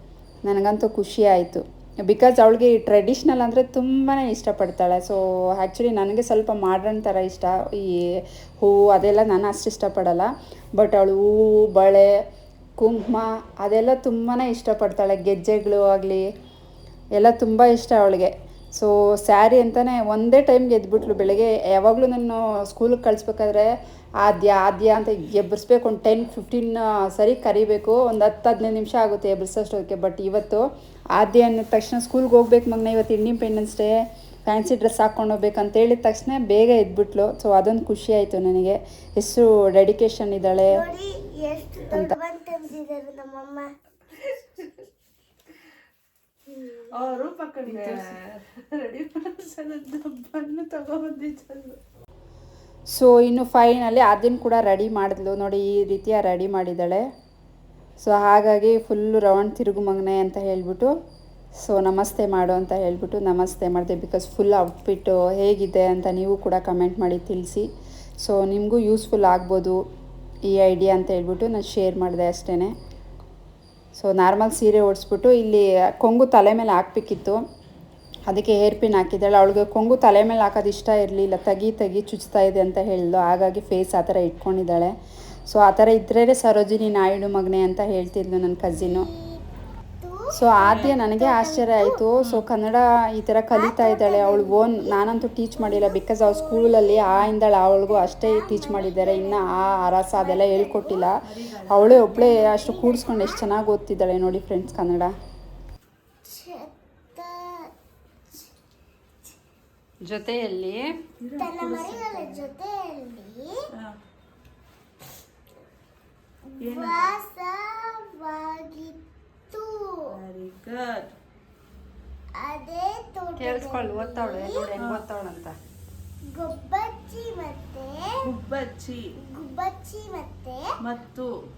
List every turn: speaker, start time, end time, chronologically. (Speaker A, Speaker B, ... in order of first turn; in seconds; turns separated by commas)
Speaker A: 0.5-12.1, Speaker A: 12.8-16.3, Speaker A: 17.1-30.6, Speaker A: 31.2-40.8, Speaker B: 40.7-43.7, Speaker C: 44.2-44.7, Speaker C: 46.9-51.8, Speaker A: 52.9-57.0, Speaker A: 58.0-60.9, Speaker A: 61.6-67.7, Speaker A: 68.2-69.8, Speaker A: 70.5-72.7, Speaker A: 74.0-77.4, Speaker A: 78.3-84.9, Speaker A: 85.5-89.1, Speaker B: 88.8-89.4, Speaker B: 90.0-92.0, Speaker A: 90.3-105.1, Speaker B: 93.5-101.2, Speaker C: 101.2-102.0, Speaker B: 101.8-103.5, Speaker B: 106.2-107.7, Speaker A: 110.0-110.9, Speaker C: 111.2-112.5, Speaker B: 111.4-113.6, Speaker B: 116.5-119.0, Speaker C: 116.6-117.2, Speaker B: 119.5-120.0, Speaker C: 120.1-121.1, Speaker B: 122.3-124.7, Speaker A: 123.4-125.6, Speaker C: 124.8-125.1, Speaker B: 126.3-128.2, Speaker C: 128.2-129.0, Speaker B: 129.2-130.7, Speaker C: 130.8-131.3